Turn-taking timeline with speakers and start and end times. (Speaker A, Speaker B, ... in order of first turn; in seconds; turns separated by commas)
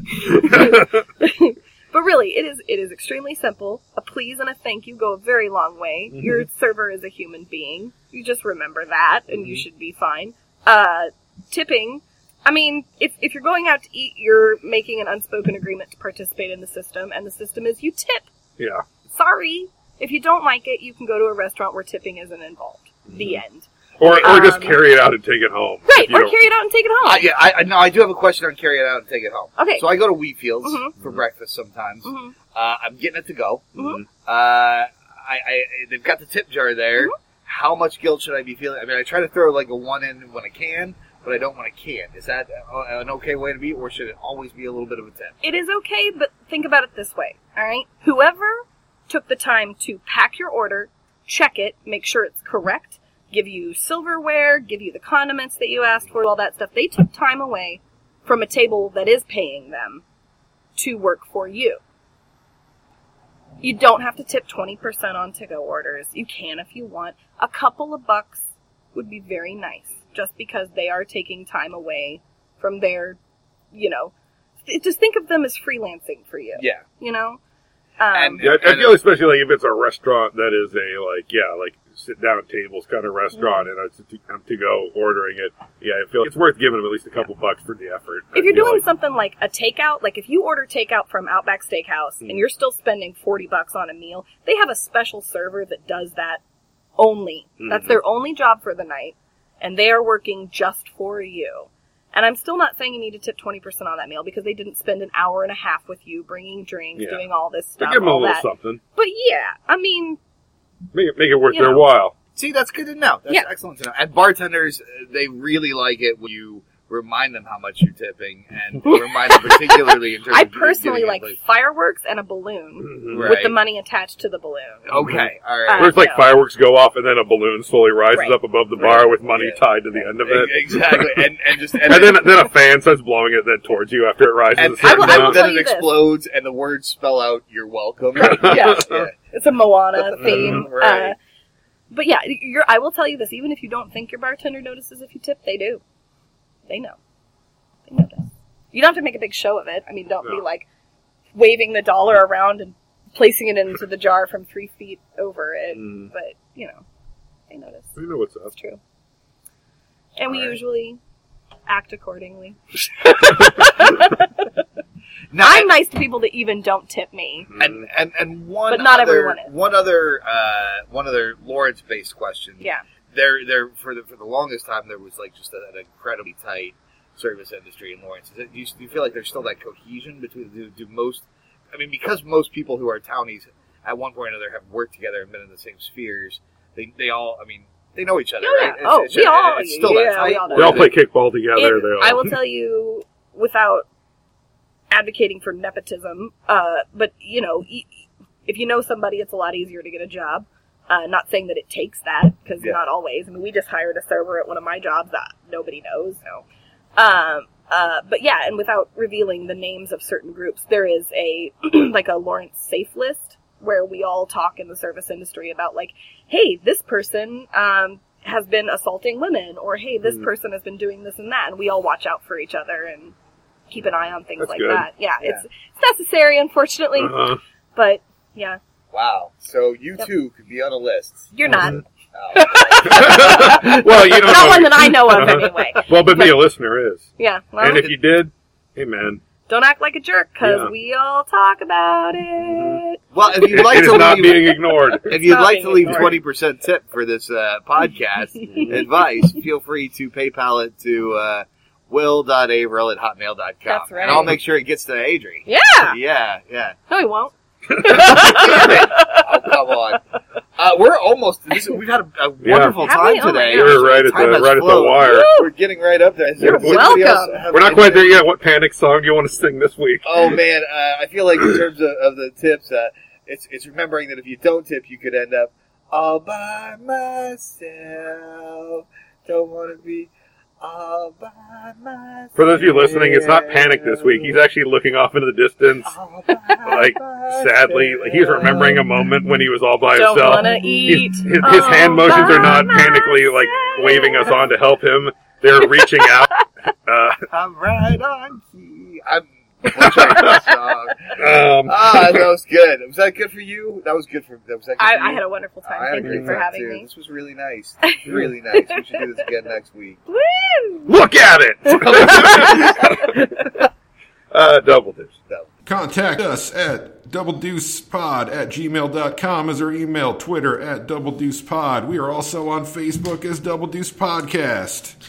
Speaker A: 0.1-18.3, Speaker B: 0.4-0.9, Speaker B: 6.1-6.4, Speaker B: 9.3-9.6, Speaker B: 18.6-18.8, Speaker A: 19.1-23.7, Speaker B: 23.1-23.4, Speaker B: 24.0-26.4, Speaker C: 24.0-24.5, Speaker A: 24.2-24.8, Speaker A: 25.9-27.3, Speaker C: 27.0-45.4, Speaker A: 29.6-29.8, Speaker A: 30.6-30.9, Speaker A: 32.0-32.3, Speaker A: 33.8-34.0, Speaker A: 45.4-60.0, Speaker A: 60.8-61.8, Speaker A: 63.6-73.2, Speaker A: 73.7-74.1, Speaker A: 74.7-77.4, Speaker C: 76.6-76.8, Speaker A: 78.0-78.5, Speaker C: 78.1-79.0, Speaker B: 78.4-88.8, Speaker A: 83.3-83.7, Speaker A: 88.3-96.4, Speaker A: 97.0-110.2, Speaker B: 97.6-98.0, Speaker B: 107.0-107.2, Speaker B: 107.8-108.8, Speaker B: 110.9-112.1, Speaker A: 111.5-111.8, Speaker C: 112.4-121.4, Speaker A: 118.9-125.0, Speaker B: 122.8-123.3, Speaker C: 123.1-123.5, Speaker C: 124.9-125.9, Speaker B: 124.9-131.2, Speaker A: 125.6-126.3, Speaker C: 128.8-129.6, Speaker C: 130.2-132.3, Speaker B: 131.8-135.4, Speaker C: 134.6-139.1, Speaker A: 134.8-136.0, Speaker B: 138.2-139.0, Speaker A: 138.2-141.2, Speaker C: 139.9-141.1, Speaker B: 140.2-140.6, Speaker A: 141.9-145.8, Speaker A: 146.7-147.0, Speaker A: 147.9-150.7, Speaker A: 151.3-156.8, Speaker B: 155.7-156.1, Speaker A: 157.5-158.0, Speaker B: 157.9-158.5, Speaker A: 158.5-158.8, Speaker A: 160.2-161.0, Speaker A: 161.7-164.6, Speaker C: 165.3-165.7, Speaker A: 165.4-167.5, Speaker B: 167.5-167.8, Speaker C: 167.6-190.9, Speaker A: 168.7-169.5, Speaker A: 188.4-190.9, Speaker B: 190.5-192.4, Speaker A: 191.5-193.9, Speaker A: 194.9-206.4, Speaker A: 206.9-223.1, Speaker A: 223.7-227.2, Speaker B: 224.4-224.8, Speaker B: 227.0-227.4, Speaker A: 227.8-228.6, Speaker C: 228.9-234.5, Speaker A: 231.3-231.8, Speaker B: 231.5-231.8, Speaker A: 232.3-236.4, Speaker B: 232.8-237.1, Speaker C: 235.2-235.5, Speaker A: 237.2-237.9, Speaker B: 237.6-239.2, Speaker A: 239.5-246.2, Speaker B: 240.4-240.7, Speaker B: 242.5-242.8, Speaker C: 243.1-256.8, Speaker B: 243.5-245.2, Speaker A: 248.4-249.3, Speaker A: 253.7-254.3, Speaker B: 254.0-254.4, Speaker A: 255.4-256.0, Speaker A: 256.9-259.4, Speaker C: 258.0-260.0, Speaker C: 260.6-268.2, Speaker B: 262.4-262.8, Speaker A: 262.8-263.8, Speaker B: 263.5-265.3, Speaker A: 265.0-265.5, Speaker B: 266.4-270.3, Speaker A: 266.4-267.4, Speaker C: 270.0-284.4, Speaker B: 282.4-285.9, Speaker C: 285.9-288.9, Speaker B: 286.5-297.2, Speaker A: 289.9-294.3, Speaker A: 295.8-296.4, Speaker C: 297.3-310.0, Speaker B: 299.8-300.4, Speaker B: 301.1-302.2, Speaker A: 304.8-306.9, Speaker B: 306.0-306.3, Speaker A: 307.8-309.0, Speaker A: 310.1-310.9, Speaker B: 310.9-313.6, Speaker A: 311.7-313.1, Speaker C: 311.9-312.6, Speaker B: 314.3-315.1, Speaker D: 315.6-324.9